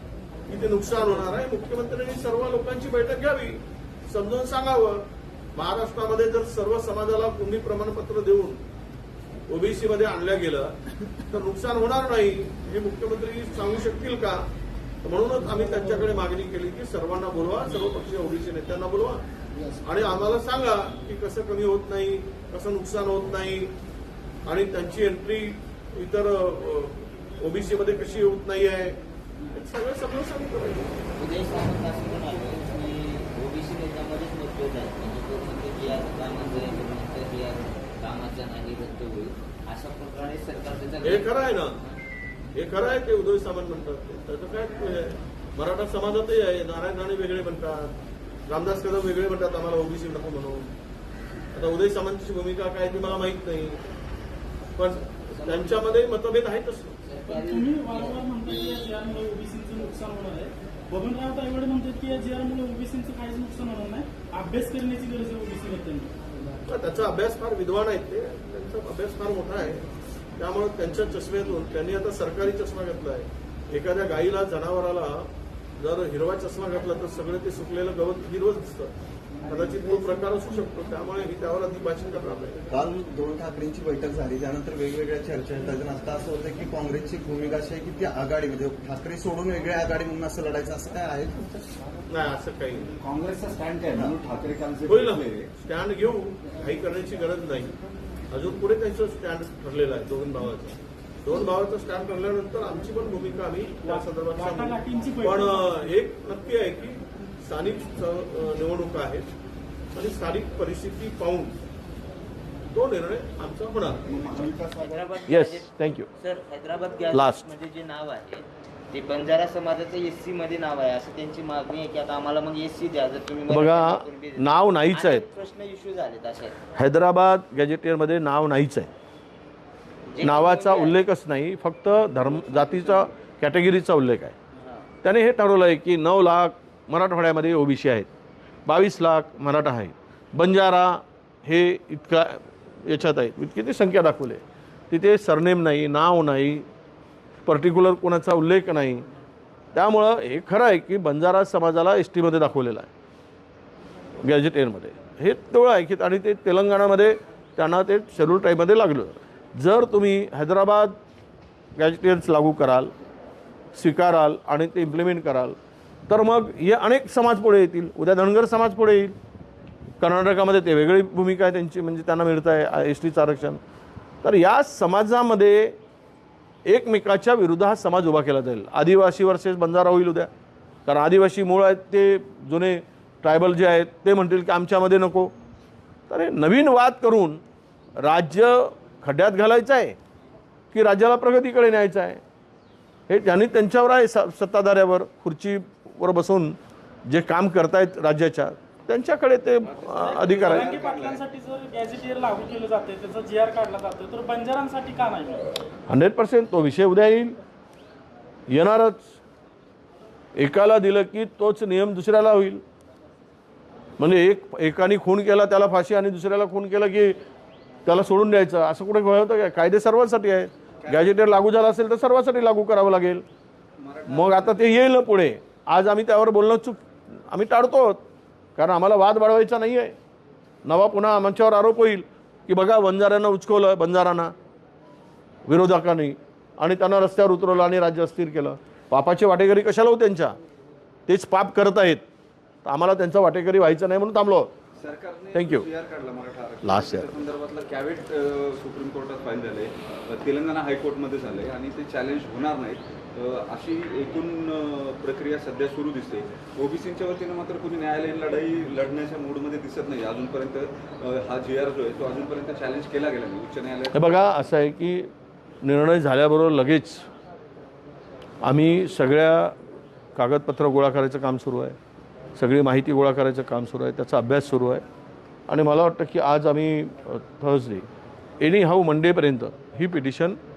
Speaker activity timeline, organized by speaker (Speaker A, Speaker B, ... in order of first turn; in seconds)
Speaker A: 0.5-8.6, 9.5-14.4, 15.0-19.2, 19.8-23.7, 24.4-29.0, 29.5-31.0, 41.0-41.7, 42.5-47.9, 48.5-50.7, 51.5-53.8, 54.8-57.0, 66.7-69.8, 70.4-75.3, 75.8-78.9, 79.5-82.7, 92.1-92.9, 94.9-97.7, 98.3-109.3, 109.9-111.5, 112.7-114.0, 115.3-116.1, 117.1-117.5, 123.5-125.2, 126.7-128.9, 130.2-134.3, 135.0-138.1, 138.7-146.7, 147.4-149.0, 149.7-152.9, 154.2-160.9, 161.8-162.9, 163.7-165.6, 166.1-169.1, 170.0-173.6, 174.2-175.8, 176.7-180.3, 180.8-185.3, 186.1-187.4, 188.0-190.0, 190.7-192.2, 193.1-196.6, 197.1-200.7, 205.9-207.4, 208.5-209.1, 210.4-212.6, 214.0-217.2, 217.8-223.2, 224.1-228.0, 228.6-229.9, 230.7-234.3, 235.5-240.3, 241.1-242.0, 242.6-244.5, 245.3-245.7, 246.6-247.1, 263.9-265.1, 265.6-267.0, 268.4-269.5, 270.1-271.8, 272.4-274.8, 275.5-277.9, 278.4-280.4
Speaker B: 31.2-41.9, 55.1-56.0, 57.0-58.1, 114.8-126.6, 130.1-131.0, 132.6-133.0, 134.6-134.8
Speaker C: 57.2-66.1, 103.8-105.9, 200.4-205.5
Speaker D: 82.7-91.7
Speaker E: 93.0-95.5, 114.1-115.0, 199.6-201.2, 220.8-221.2, 223.8-224.7, 244.8-264.3